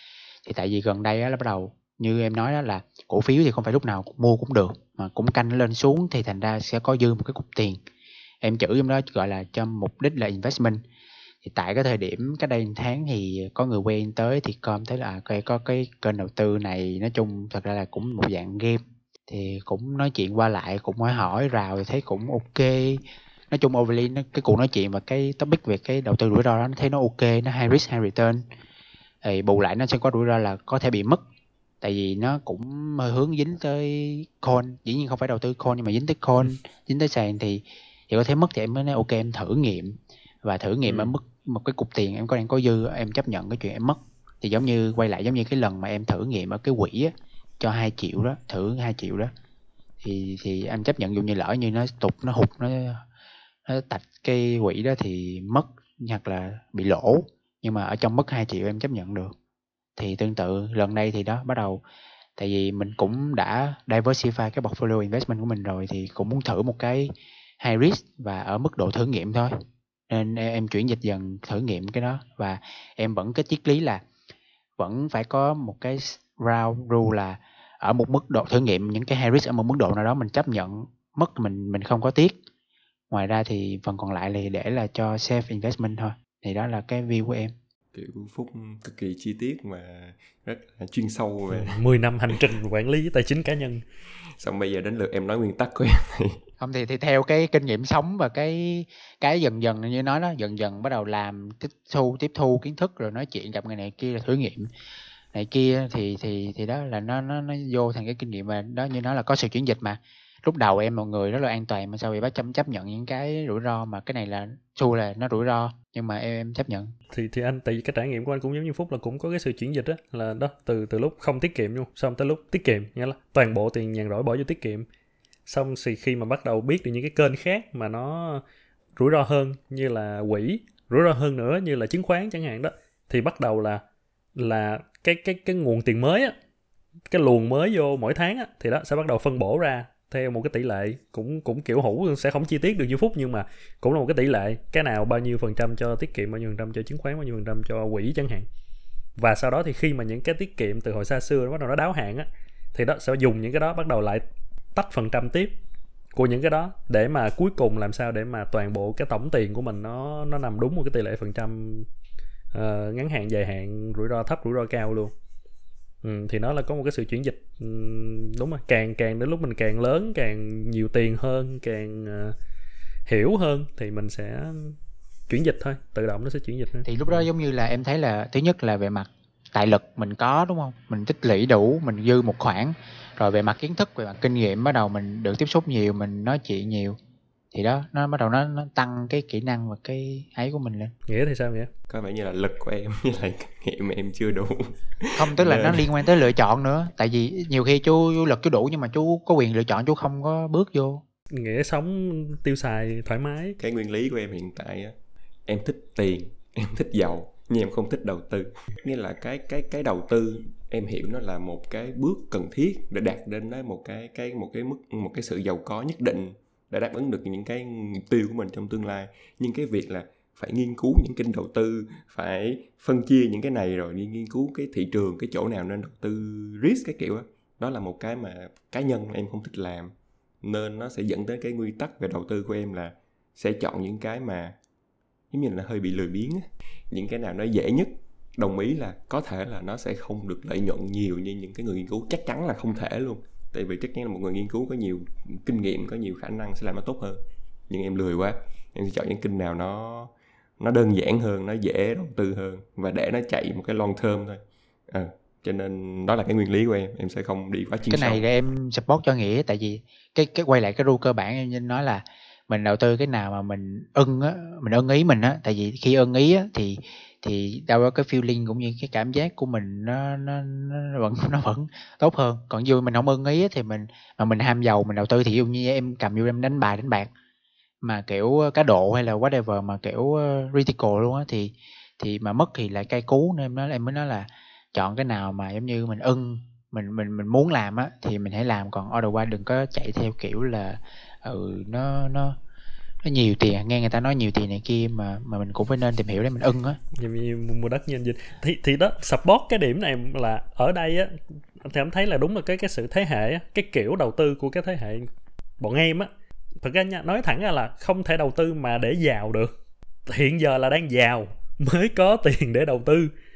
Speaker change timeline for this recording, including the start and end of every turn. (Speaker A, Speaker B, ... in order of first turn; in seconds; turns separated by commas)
Speaker A: 0.4-7.8, Speaker A: 8.4-10.8, Speaker A: 11.4-28.4, Speaker A: 29.2-31.2, Speaker A: 31.8-49.3, Speaker B: 40.9-41.1, Speaker A: 50.0-53.0, Speaker A: 53.6-59.3, Speaker A: 60.0-61.8, Speaker A: 62.4-69.5, Speaker A: 70.1-74.0, Speaker A: 74.8-82.4, Speaker A: 83.1-87.5, Speaker C: 87.9-91.8, Speaker B: 91.5-93.8, Speaker C: 94.4-96.4, Speaker A: 96.6-104.7, Speaker A: 105.3-116.9, Speaker B: 117.1-124.8, Speaker B: 125.5-128.4, Speaker B: 128.9-133.8, Speaker B: 134.3-136.3, Speaker B: 137.1-148.5, Speaker B: 149.2-154.2, Speaker B: 154.7-155.5, Speaker B: 156.1-161.9, Speaker B: 162.5-165.1, Speaker B: 166.0-172.3, Speaker B: 173.1-174.8, Speaker B: 175.3-177.2, Speaker A: 176.8-187.0, Speaker A: 187.5-190.9, Speaker B: 191.1-191.7, Speaker C: 191.9-195.9, Speaker A: 195.2-201.0, Speaker B: 201.3-203.6, Speaker C: 203.6-204.9, Speaker C: 205.4-234.5, Speaker C: 235.3-258.2, Speaker A: 257.9-277.1, Speaker A: 277.8-292.4, Speaker A: 293.0-296.8, Speaker B: 296.9-305.1, Speaker B: 305.6-306.1, Speaker B: 306.6-309.5, Speaker B: 310.1-313.1